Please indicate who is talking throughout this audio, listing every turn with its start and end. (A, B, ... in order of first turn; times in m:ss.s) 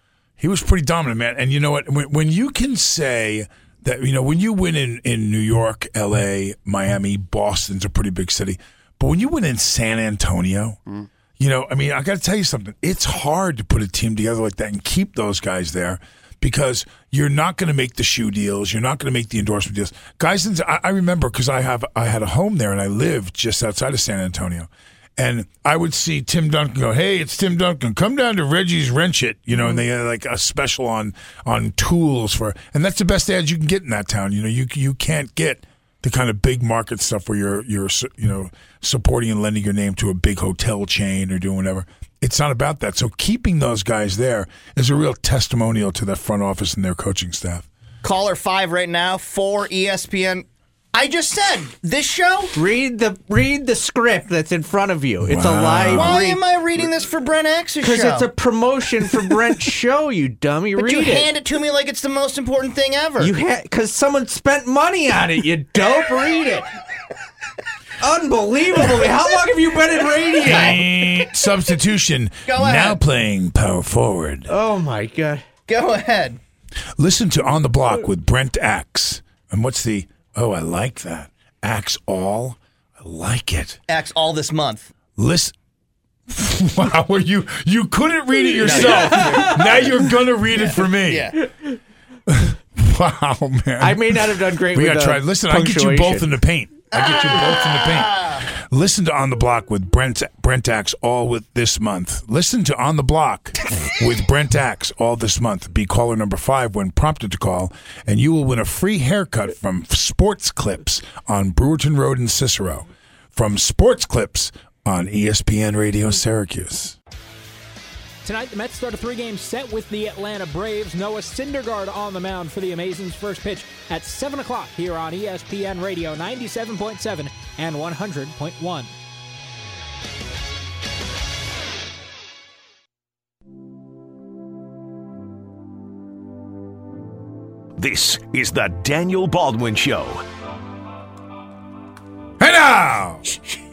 0:00.4-0:10.8 A
0:11.4-0:47.7 A
0:48.0-0:52.5 B
0:52.5-0:56.4 C
0:55.2-0:56.2 A
0:55.9-0:58.3 B
0:57.8-1:01.3 C
1:00.8-1:03.3 B
1:03.2-1:06.7 C
1:08.0-1:10.8 C
1:10.4-1:10.8 B
1:10.4-1:14.5 A
1:12.4-1:13.0 B
1:14.5-1:15.4 C
1:15.7-1:16.4 B
1:17.0-1:23.8 A
1:23.9-1:24.9 B
1:25.2-1:25.5 A
1:26.3-1:31.4 A
1:28.6-1:31.4 B
1:28.8-1:29.5 C
1:32.3-1:57.0 A
1:33.8-1:36.2 C
1:36.9-1:38.4 B
1:58.2-2:08.9 D
2:17.8-2:20.2 E
2:22.4-2:23.2 A